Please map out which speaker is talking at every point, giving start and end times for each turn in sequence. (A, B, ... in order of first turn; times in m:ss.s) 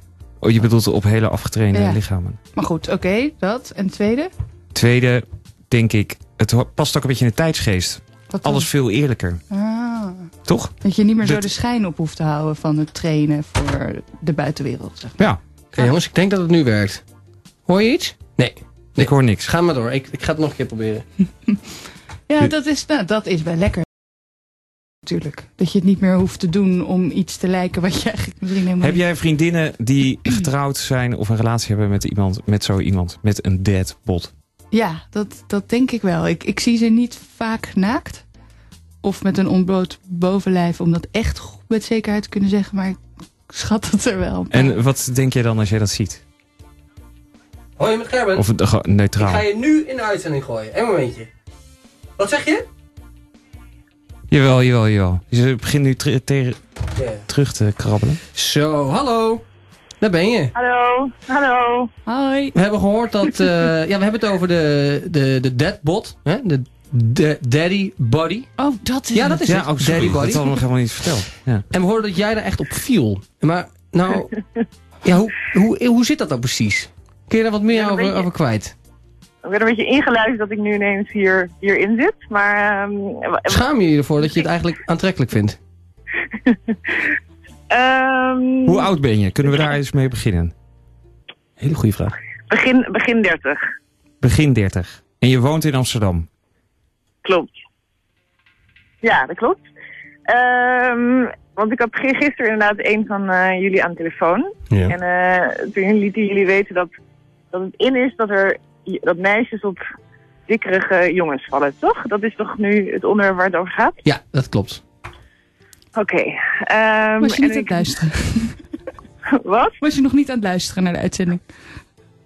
0:00.4-0:02.4 A
0:01.7-0:02.0 B
0:02.5-0:04.3 B
0:04.7-0:09.4 A
0:08.3-0:08.7 B
0:09.5-0:10.3 B
0:10.4-0:11.4 A
0:10.8-0:15.2 B
0:15.7-0:17.0 C
0:17.7-0:21.0 C
0:19.0-0:19.5 A
0:22.3-0:23.8 B
0:25.0-0:29.0 B
0:28.8-0:34.3 A
0:34.7-0:38.2 B
0:39.0-0:44.8 B
0:44.5-0:46.2 A
0:47.8-0:48.4 C
0:48.4-0:49.4 A
0:49.2-0:51.3 C
0:52.2-0:52.6 C
0:54.3-0:56.6 A
0:57.0-0:57.2 C
0:57.3-0:58.2 A
0:58.3-0:59.4 C
1:00.0-1:00.5 C
1:00.5-1:01.9 D
1:02.0-1:02.5 B
1:02.5-1:08.5 C
1:08.6-1:09.5 B
1:09.1-1:10.6 C
1:09.5-1:11.6 A
1:11.7-1:14.4 C
1:15.0-1:18.7 C
1:17.7-1:18.3 D
1:19.4-1:23.6 D
1:23.5-1:25.6 C
1:26.3-1:27.1 D
1:27.7-1:28.9 D
1:28.6-1:30.5 A
1:29.4-1:29.7 D
1:31.6-1:32.2 C
1:32.5-1:33.6 D
1:34.2-1:36.3 A
1:37.2-1:37.5 D
1:39.0-1:39.6 D
1:40.3-1:46.9 D
1:44.7-1:44.9 C
1:47.5-1:49.8 D
1:50.5-1:54.0 D
1:54.0-1:54.8 C
1:55.9-1:57.9 D
1:57.2-1:58.6 B
1:59.3-1:59.8 D
1:59.8-2:01.4 B